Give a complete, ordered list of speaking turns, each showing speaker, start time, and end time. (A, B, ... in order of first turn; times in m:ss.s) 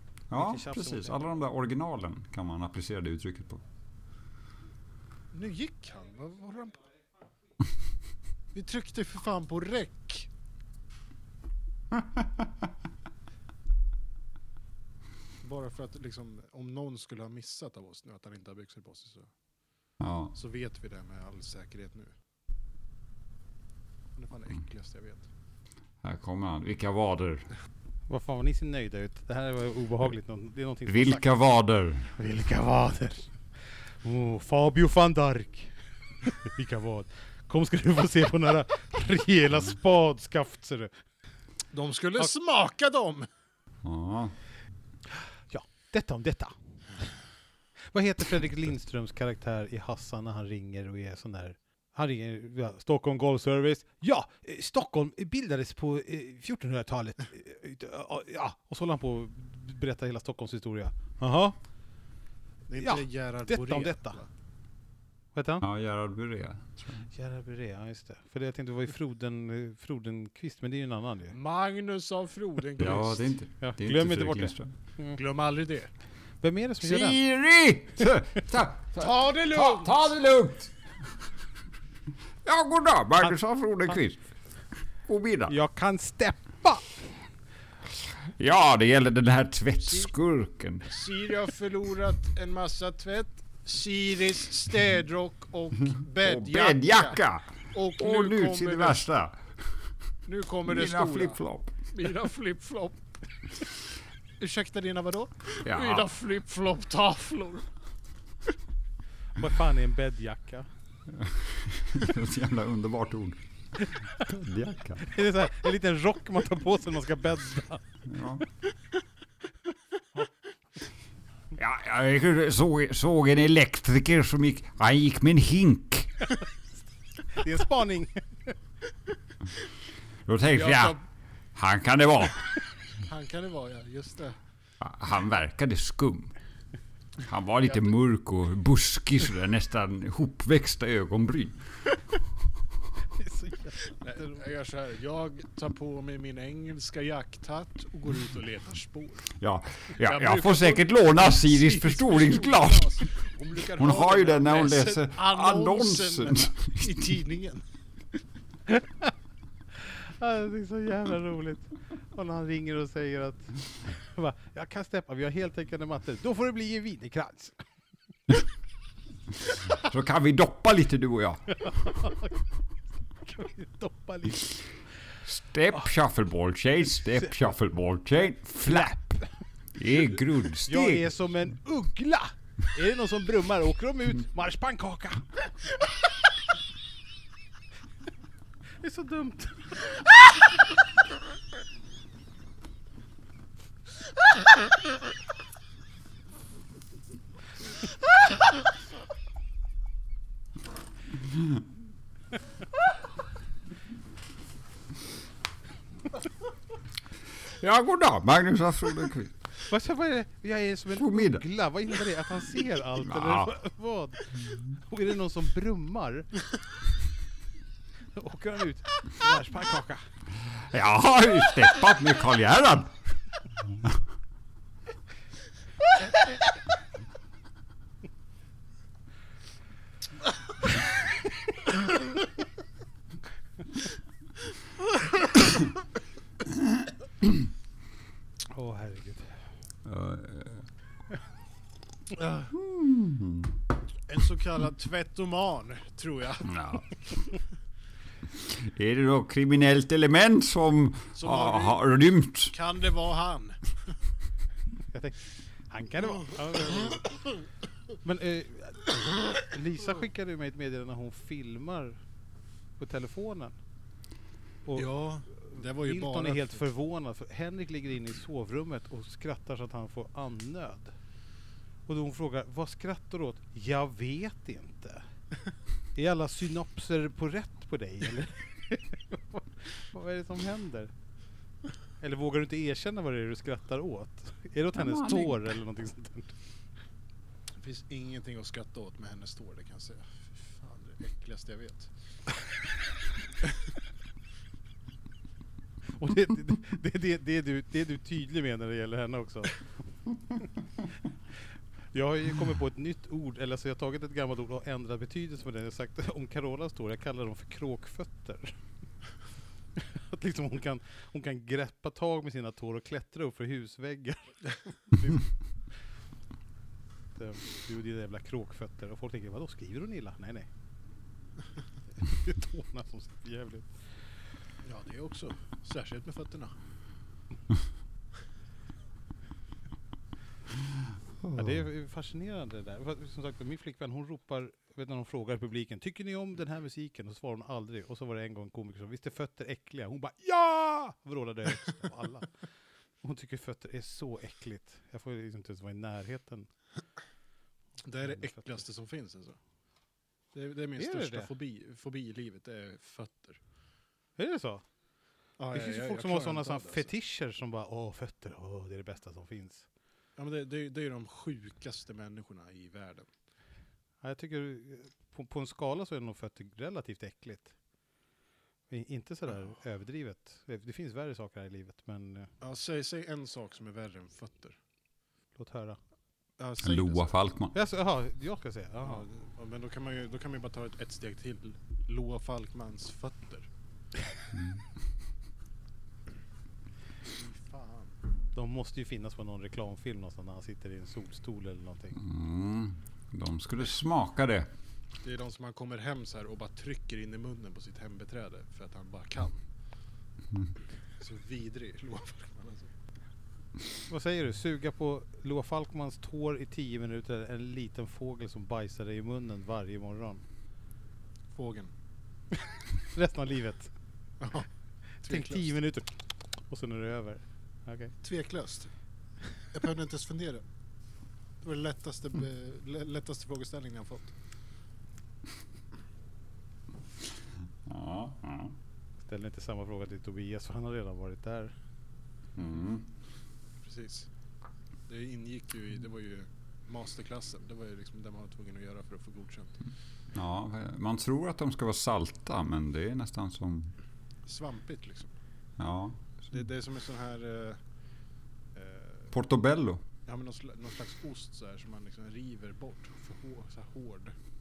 0:00.3-0:03.6 A
0:00.3-0:01.2 B
0:05.3-0:06.8 C
0:08.5-0:10.3 C
0:15.4-0:19.3 C
0:20.0-0:20.3 A
0:20.3-0:22.1 C
0:24.2-0:25.3 C
0:26.0-0:27.5 A
0:28.1-0:31.4 B
0:30.9-0:32.1 A
0:32.1-0:35.7 B
0:36.2-0:40.9 B
0:41.7-0:43.3 C
0:43.8-0:44.3 A
0:45.5-0:46.5 B
0:47.9-1:01.6 B
1:02.7-1:04.3 C
1:02.8-1:04.2 B
1:05.3-1:05.6 B
1:05.6-1:07.1 A
1:07.1-1:11.4 B
1:11.3-1:13.3 C
1:12.8-1:14.7 A
1:13.6-1:15.1 B
1:15.1-1:15.9 C
1:16.4-1:17.2 B
1:16.8-1:20.7 A
1:19.0-1:20.0 C
1:22.4-1:24.2 A
1:25.1-1:25.5 A
1:25.5-1:27.0 B
1:28.4-1:30.9 A
1:29.8-1:30.1 C
1:30.8-1:37.2 C
1:36.2-1:39.4 A
1:37.7-1:39.0 C
1:40.2-1:41.4 C
1:40.6-1:41.9 A
1:41.9-1:43.0 C
1:44.4-1:47.7 C
1:45.6-1:46.1 A
1:49.4-1:50.7 B
1:51.2-1:53.4 A
1:54.2-1:55.1 A
1:55.0-1:57.8 B
1:58.0-1:58.4 A
2:01.5-2:06.3 A
2:07.3-2:08.5 B
2:10.2-2:11.0 A
2:10.5-2:11.0 C
2:11.6-2:12.5 A
2:13.0-2:14.4 C
2:14.8-2:16.3 A
2:17.2-2:21.6 A
2:17.6-2:17.9 C
2:23.2-2:24.4 B
2:24.0-2:29.3 C
2:29.4-2:33.0 A
2:30.0-2:37.6 C
2:33.8-2:36.7 A
2:38.7-2:39.1 B
2:39.8-2:47.6 B
2:49.8-2:51.6 A
2:51.6-2:52.4 B
2:53.1-2:54.6 B
2:55.3-2:59.0 A
2:58.6-2:59.3 B
2:59.8-3:01.1 A
3:00.6-3:05.5 B
3:08.8-3:10.0 B
3:27.6-3:29.3 A
3:29.6-3:36.3 B
3:30.9-3:31.4 A
3:33.0-3:33.5 A
3:38.1-3:40.0 B
3:40.6-3:42.9 A
3:58.5-3:59.4 B
3:59.8-4:00.7 A
4:02.1-4:02.5 C
4:02.6-4:03.6 A
4:04.1-4:06.5 C
4:06.4-4:07.0 A
4:08.4-4:12.5 A
4:11.2-4:11.9 C
4:12.5-4:13.6 C
4:14.9-4:17.1 B
4:18.0-4:22.0 B
4:22.8-4:23.6 B
4:24.6-4:24.9 B
4:24.7-4:26.7 C
4:25.5-4:30.9 B
4:31.9-4:35.0 B
4:35.9-4:40.9 B
4:42.0-4:46.3 B
4:44.7-4:45.4 A
4:47.6-4:51.9 C
4:55.9-5:00.5 B
5:01.9-5:08.6 B
5:09.8-5:15.3 B
5:17.1-5:20.5 B
5:21.9-5:23.7 B
5:24.6-5:26.5 C
5:31.3-5:42.3 B
5:43.0-5:46.5 B
5:47.8-5:49.4 C
5:48.3-5:48.5 B
5:50.3-5:53.4 C
5:50.8-5:51.3 B
5:54.2-5:54.6 B
5:55.4-5:56.9 C
5:55.5-5:59.7 B
6:00.2-6:03.1 C
6:04.0-6:07.5 B
6:08.7-6:12.3 B
6:12.4-6:14.6 C
6:15.3-6:15.8 B
6:16.4-6:17.1 C
6:16.6-6:17.5 A
6:17.5-6:19.0 B
6:18.8-6:23.5 C
6:24.3-6:24.6 A
6:27.0-6:28.0 C
6:28.3-6:32.0 B
6:32.0-6:34.5 A
6:35.0-6:39.4 C
6:41.0-6:42.7 C
6:43.9-6:50.2 B
6:51.3-6:51.7 C
6:52.8-6:53.7 B
6:54.2-6:54.5 C
6:55.0-6:57.9 B
6:55.0-6:55.5 C
6:58.0-6:58.7 C
6:59.5-7:00.4 C
7:01.4-7:04.1 C
7:07.6-7:08.5 A
7:09.0-7:11.5 B
7:12.4-7:12.9 A
7:13.6-7:14.1 C
7:14.9-7:19.6 C
7:20.1-7:23.7 A
7:24.2-7:25.1 C
7:25.6-7:26.3 A
7:26.3-7:27.6 C
7:28.5-7:29.1 C
7:29.1-7:29.8 A
7:30.1-7:34.2 C